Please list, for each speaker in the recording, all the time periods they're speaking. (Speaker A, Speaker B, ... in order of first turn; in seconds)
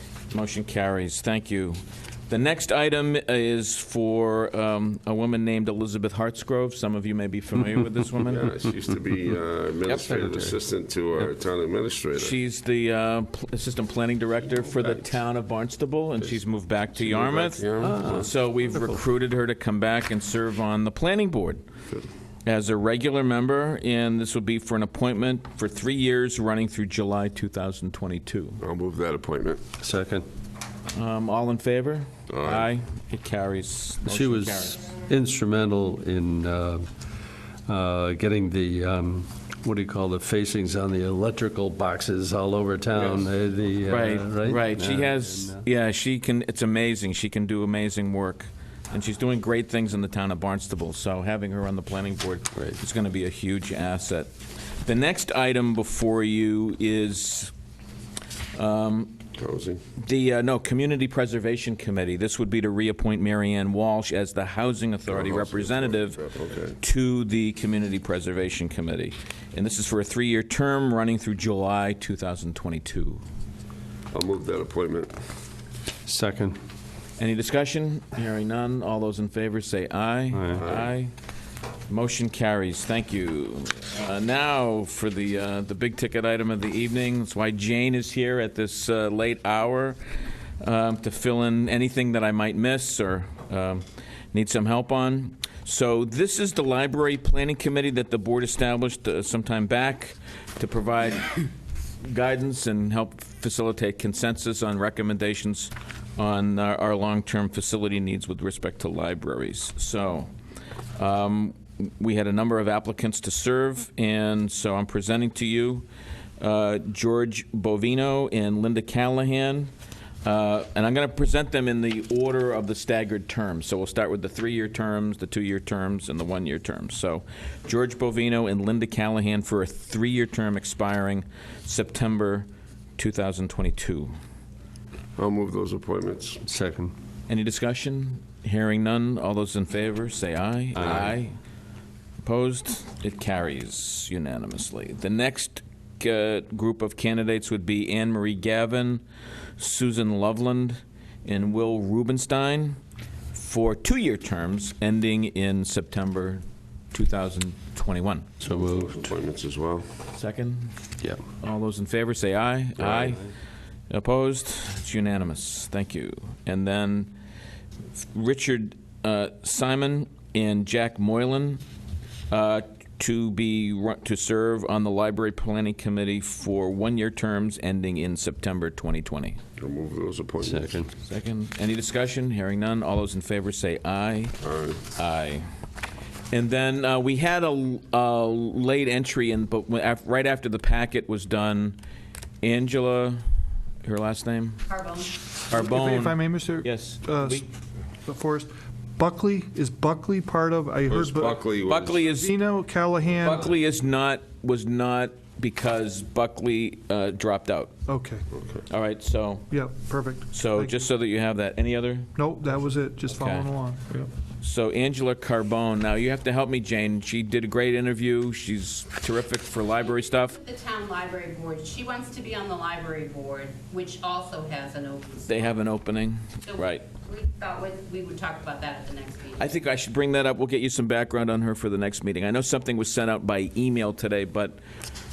Speaker A: 0.3-8.5, 12.2-21.6, 22.4-28.6, 30.9-34.8, 43.9-54.3, 54.8-57.5, 58.5-59.2, 60.0-66.2, 66.8-73.2, 77.2-81.1, 81.9-90.0, 90.6-101.5, 102.0-110.3, 111.0-115.8, 116.4-119.7, 120.2-132.5, 133.0-134.1, 137.3-141.4, 142.2-149.0, 149.6-152.8, 153.3-158.3, 160.1-160.7, 161.4-163.3, 163.9-167.1, 168.1-171.6, 172.3-179.4, 181.0-184.4, 184.9-185.5, 186.3-191.8, 192.4-193.2, 193.8-194.6, 195.5-197.5, 201.7-202.4, 203.2-207.7, 208.7-209.6, 210.3-213.5, 214.4-220.4, 225.3-226.9, 229.4-234.6
Speaker B: 8.2-12.4, 14.6-15.2, 16.9-18.3, 28.6-29.6, 32.3-32.7, 59.4-59.8, 65.1-66.8, 74.1-75.1, 80.6-80.9, 135.2-136.4, 140.8-141.1, 158.4-159.9, 162.8-163.2, 179.6-180.8, 184.4-184.8, 200.9-202.0, 208.3-208.6
Speaker C: 10.0-10.5, 17.8-19.0, 29.8-30.2, 34.0-37.1, 37.7-45.6, 76.0-76.6, 80.3-80.6, 136.4-136.9, 140.8-141.1, 158.4-159.0, 180.4-180.9
Speaker D: 194.7-195.1, 220.3-225.5, 226.5-229.5
Speaker E: 195.5-197.5, 198.1-201.4, 202.2-203.5, 207.9-208.2, 209.5-210.8, 212.2-214.1